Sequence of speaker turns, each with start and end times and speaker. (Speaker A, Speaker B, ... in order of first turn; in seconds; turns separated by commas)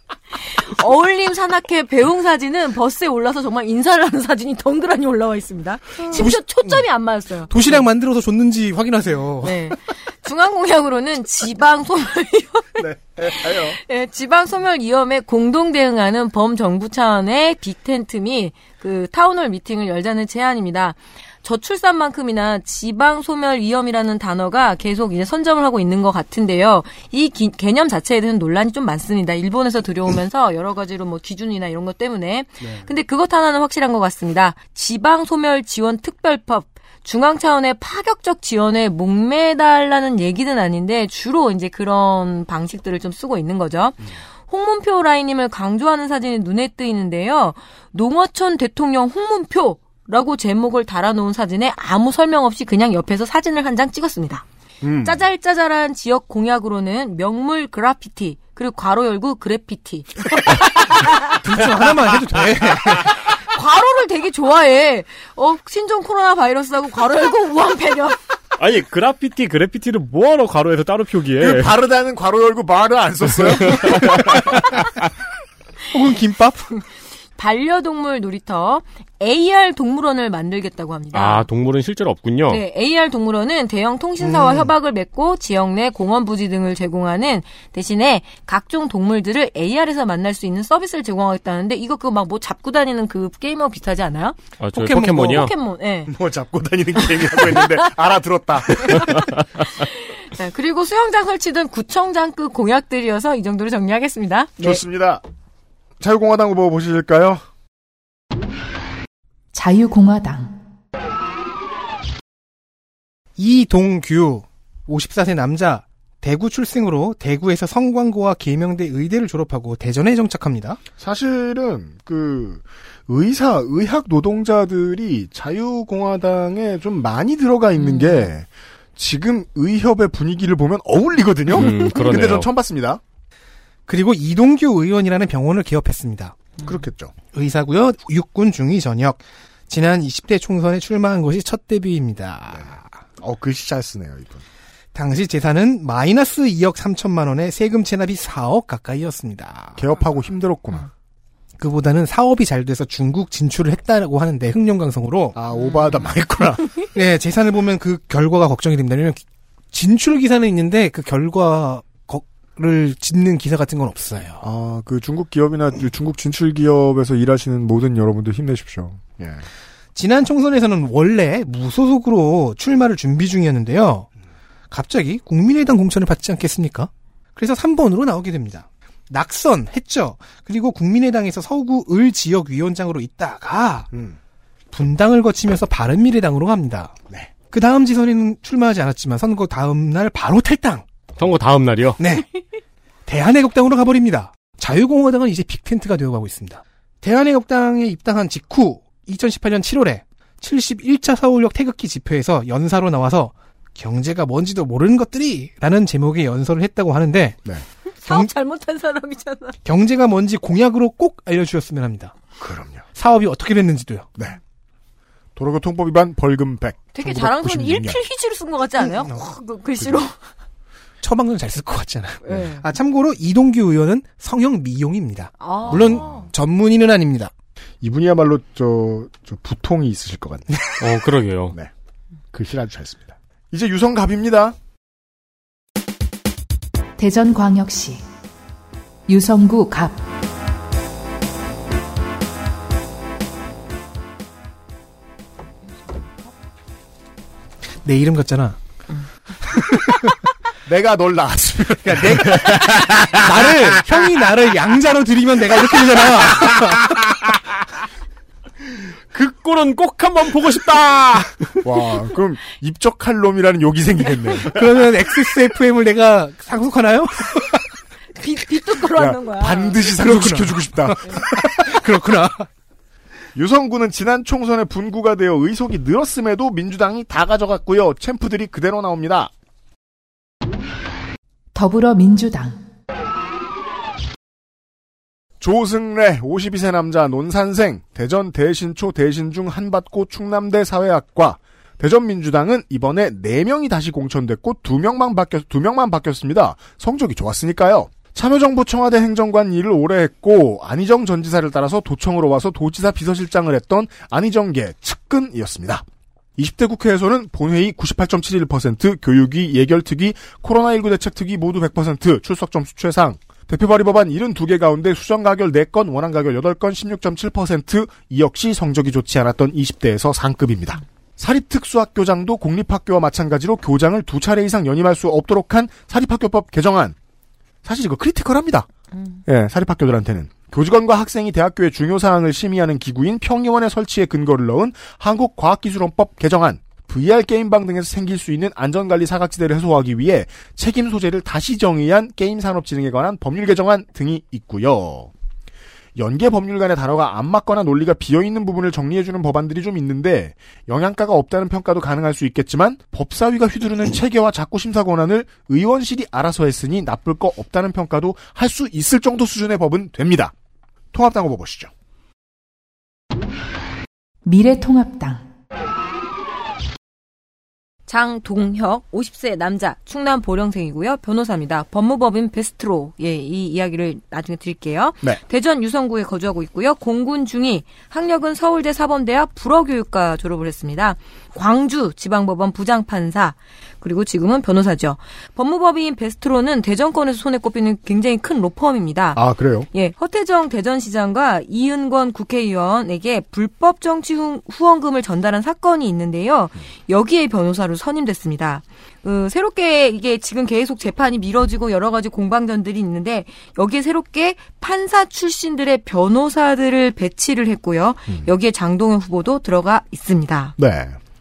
Speaker A: 0.5-7.8, Speaker B: 6.1-6.8, Speaker B: 7.5-9.6, Speaker A: 9.4-54.5, Speaker C: 12.8-13.8, Speaker C: 32.6-32.9, Speaker C: 54.8-55.2, Speaker A: 55.0-61.2, Speaker B: 61.2-63.2, Speaker A: 63.1-68.2, Speaker D: 68.6-71.7, Speaker C: 71.4-74.5, Speaker D: 73.7-74.5, Speaker B: 75.9-76.7, Speaker A: 77.4-81.5, Speaker D: 81.1-82.6, Speaker A: 82.5-96.1, Speaker B: 84.2-84.7, Speaker D: 94.6-95.5, Speaker B: 94.8-95.2, Speaker C: 96.1-99.3, Speaker A: 97.2-97.9, Speaker D: 99.1-99.4, Speaker A: 99.7-104.8, Speaker C: 104.6-105.2, Speaker C: 106.0-107.4, Speaker E: 109.5-110.5, Speaker B: 113.4-120.8, Speaker C: 121.0-133.0, Speaker A: 127.8-128.3, Speaker D: 131.5-132.5, Speaker B: 133.9-136.4, Speaker C: 136.6-137.1, Speaker B: 137.3-142.9, Speaker C: 142.5-144.4, Speaker B: 144.9-149.8, Speaker C: 149.8-150.9, Speaker B: 151.6-155.4, Speaker C: 155.3-156.8, Speaker A: 155.6-156.0, Speaker B: 156.9-164.4, Speaker C: 164.4-169.5, Speaker B: 169.9-174.1, Speaker B: 174.7-183.9, Speaker B: 184.7-186.9, Speaker B: 187.5-190.8, Speaker D: 191.2-192.0, Speaker B: 192.0-192.3, Speaker B: 193.1-207.4, Speaker A: 208.0-209.6, Speaker B: 209.7-212.2, Speaker C: 212.4-212.8, Speaker B: 212.9-214.1, Speaker C: 215.4-218.0, Speaker A: 216.9-220.2, Speaker B: 221.0-227.3, Speaker A: 222.2-222.6, Speaker A: 225.4-226.3, Speaker C: 225.7-226.1, Speaker C: 227.8-230.7, Speaker D: 230.8-231.6, Speaker C: 232.3-234.6, Speaker E: 237.0-238.0, Speaker E: 239.1-240.0, Speaker B: 247.8-248.6, Speaker B: 249.5-250.2, Speaker C: 250.7-253.5, Speaker B: 251.8-256.9, Speaker D: 252.3-253.2, Speaker D: 256.3-257.4, Speaker D: 259.1-261.6, Speaker C: 261.6-264.6, Speaker B: 264.5-267.7, Speaker A: 268.2-269.8, Speaker C: 268.9-271.8, Speaker B: 269.9-272.5, Speaker C: 273.4-279.3, Speaker E: 281.5-282.6, Speaker C: 285.4-305.9, Speaker C: 306.4-326.9, Speaker C: 327.6-328.7, Speaker C: 329.3-345.1, Speaker C: 346.0-360.3, Speaker C: 360.9-361.7, Speaker E: 364.3-365.2, Speaker A: 367.9-389.2, Speaker C: 389.1-389.7, Speaker A: 389.7-410.6, Speaker C: 410.6-411.0